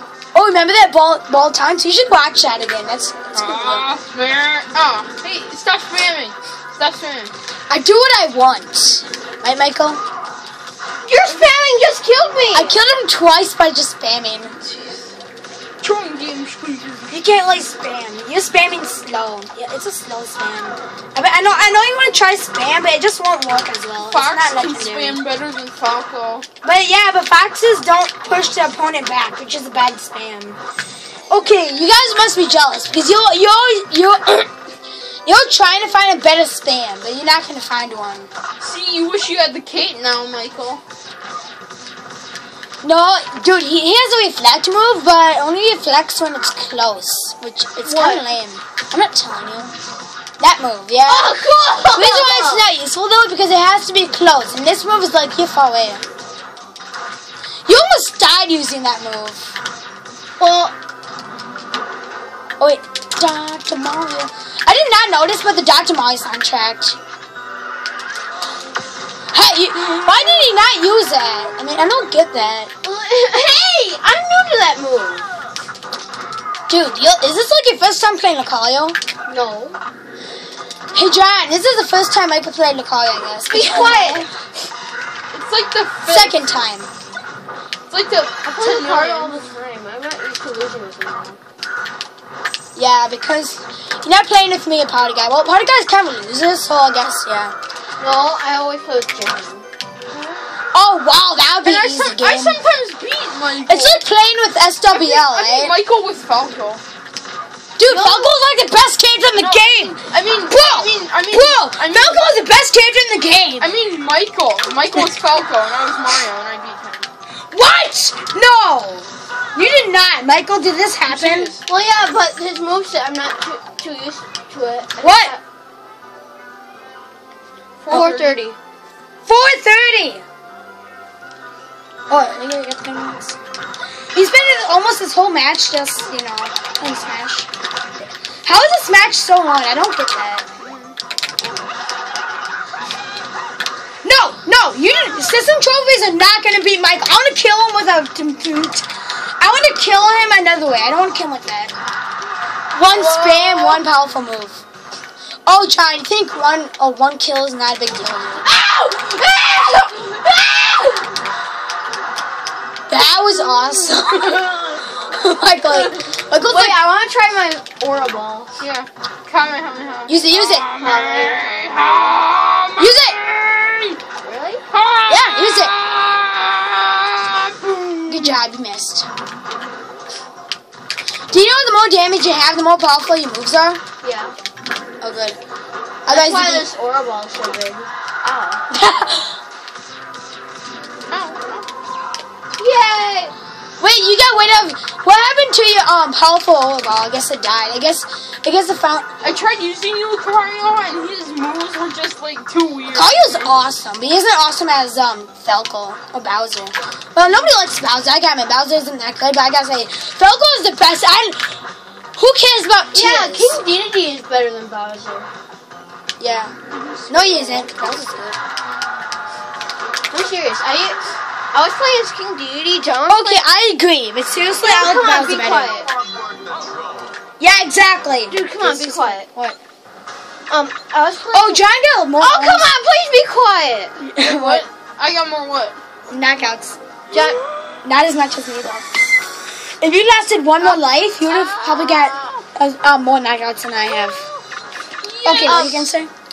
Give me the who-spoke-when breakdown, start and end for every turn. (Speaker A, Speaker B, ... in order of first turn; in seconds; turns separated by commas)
Speaker A: 0.3-3.9, Speaker B: 3.3-7.3, Speaker A: 7.7-10.0, Speaker C: 11.1-12.8, Speaker A: 12.5-14.6, Speaker B: 14.6-15.1, Speaker B: 15.8-17.2, Speaker A: 17.1-25.2, Speaker B: 24.1-26.5, Speaker A: 26.6-30.6, Speaker A: 31.3-34.5, Speaker A: 35.2-38.3, Speaker B: 38.6-40.8, Speaker A: 42.8-49.7, Speaker C: 47.9-48.3, Speaker A: 50.4-51.4, Speaker C: 51.1-52.6, Speaker A: 51.9-56.0, Speaker A: 57.7-59.5, Speaker C: 60.4-60.7, Speaker A: 62.6-67.0, Speaker A: 69.3-72.7, Speaker C: 72.8-75.3, Speaker A: 76.7-79.0, Speaker C: 79.3-79.8, Speaker A: 80.9-84.3, Speaker C: 83.5-84.3, Speaker B: 85.3-86.5, Speaker A: 86.1-86.9, Speaker B: 87.9-89.3, Speaker C: 88.5-91.4, Speaker A: 92.8-97.5, Speaker C: 98.0-99.7, Speaker A: 100.7-102.6, Speaker B: 101.6-104.0, Speaker A: 103.7-105.8, Speaker B: 104.9-106.8, Speaker A: 107.8-113.7, Speaker C: 107.9-108.3, Speaker B: 109.3-112.3, Speaker B: 113.6-117.1, Speaker A: 117.5-121.5, Speaker B: 121.1-121.6, Speaker C: 121.7-125.4, Speaker A: 125.0-125.3, Speaker B: 127.8-128.4, Speaker C: 127.9-128.6, Speaker A: 127.9-128.2, Speaker A: 129.3-130.2, Speaker A: 132.1-133.4, Speaker A: 134.1-140.5, Speaker B: 140.6-140.9, Speaker A: 144.0-148.9, Speaker A: 149.4-151.7, Speaker A: 152.7-154.6, Speaker B: 153.0-153.4, Speaker C: 153.1-153.8, Speaker A: 155.5-158.5, Speaker C: 158.4-161.1, Speaker A: 162.9-166.9, Speaker C: 165.7-168.5, Speaker B: 168.6-174.0, Speaker A: 170.1-170.7, Speaker C: 170.8-171.5, Speaker A: 172.8-173.2, Speaker C: 174.2-174.6, Speaker B: 174.7-178.4, Speaker A: 175.1-175.7, Speaker A: 178.1-179.1, Speaker A: 181.3-183.8, Speaker C: 184.0-184.3, Speaker A: 185.0-185.4, Speaker A: 186.1-186.7, Speaker C: 186.1-188.6, Speaker A: 188.7-189.4, Speaker B: 191.1-191.7, Speaker C: 192.6-193.3, Speaker A: 193.8-199.1, Speaker B: 199.2-203.6, Speaker A: 202.9-211.6, Speaker A: 212.2-213.6, Speaker C: 212.9-215.3, Speaker A: 216.2-216.5, Speaker C: 217.1-218.2, Speaker A: 217.1-218.4, Speaker C: 220.1-221.0, Speaker C: 221.5-223.4, Speaker A: 223.1-225.8, Speaker C: 224.6-225.9, Speaker A: 227.4-229.6, Speaker C: 228.3-229.3, Speaker C: 230.5-231.6, Speaker A: 231.3-232.7, Speaker C: 232.2-234.0, Speaker A: 234.0-234.7, Speaker B: 234.2-235.8, Speaker A: 236.1-236.8, Speaker C: 237.1-237.4, Speaker A: 237.8-239.2, Speaker A: 239.8-244.2, Speaker B: 240.6-242.4, Speaker B: 245.0-245.9, Speaker A: 245.2-246.1, Speaker C: 245.5-245.9